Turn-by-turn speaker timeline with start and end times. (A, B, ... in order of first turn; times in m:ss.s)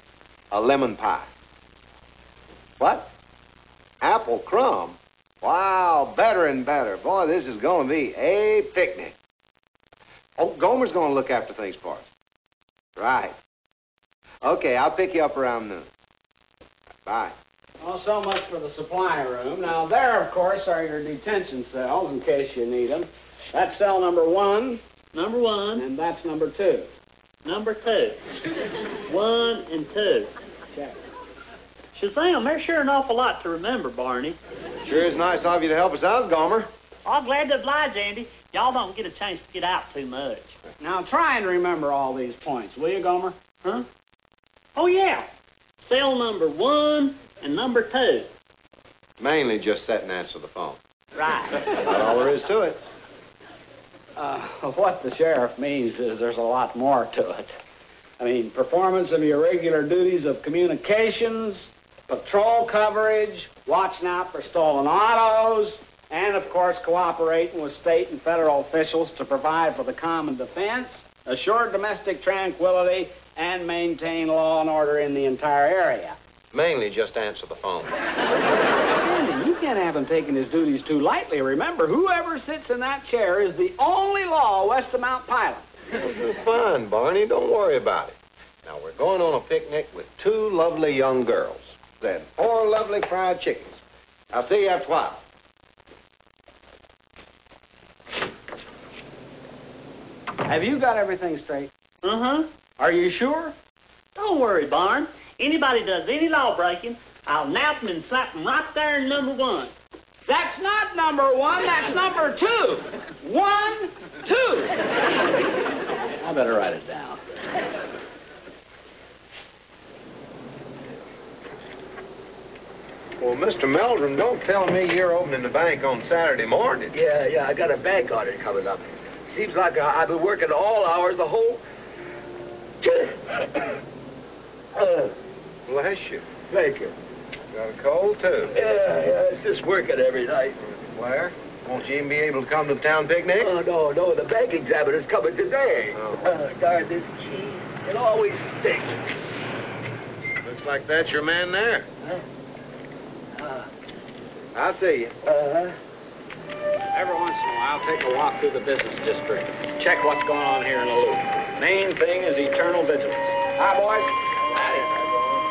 0:00.5-0:01.3 A
0:02.8-0:03.1 A
0:04.0-0:09.1 A
0:10.4-0:12.1 A
0:13.0-0:13.4 A
0:14.4-0:15.9 A
0:17.0-0:17.4 A
0:17.8-0:24.8 B
0:25.1-0:25.8 C
0:25.8-0:26.9 B
0:27.4-0:28.2 C
0:29.1-0:30.3 C
0:30.7-0:31.0 B
0:31.9-0:34.4 C
0:34.8-0:36.7 A
0:37.0-0:40.6 C
0:40.8-0:43.4 B
0:44.7-0:45.3 C
0:45.8-0:48.3 C
0:49.2-0:50.8 A
0:51.6-0:52.8 A
0:54.2-0:57.6 B
0:58.2-1:16.2 B
1:16.5-1:17.9 A
1:18.9-1:25.7 B
1:25.9-1:35.2 A
1:40.4-1:41.7 B
1:42.0-1:42.5 C
1:42.8-1:43.6 B
1:44.1-1:49.7 C
1:50.3-1:54.8 B
1:56.2-1:57.2 B
2:03.2-2:07.0 A
2:06.9-2:11.6 D
2:12.8-2:13.4 D
2:14.7-2:15.2 D
2:15.7-2:16.3 A
2:16.5-2:16.9 D
2:17.5-2:18.6 A
2:18.5-2:20.6 D
2:20.6-2:23.5 A
2:23.4-2:29.0 D
2:25.9-2:26.3 A
2:30.4-2:31.9 A
2:34.5-2:35.2 A
2:35.2-2:35.7 D
2:36.9-2:44.9 B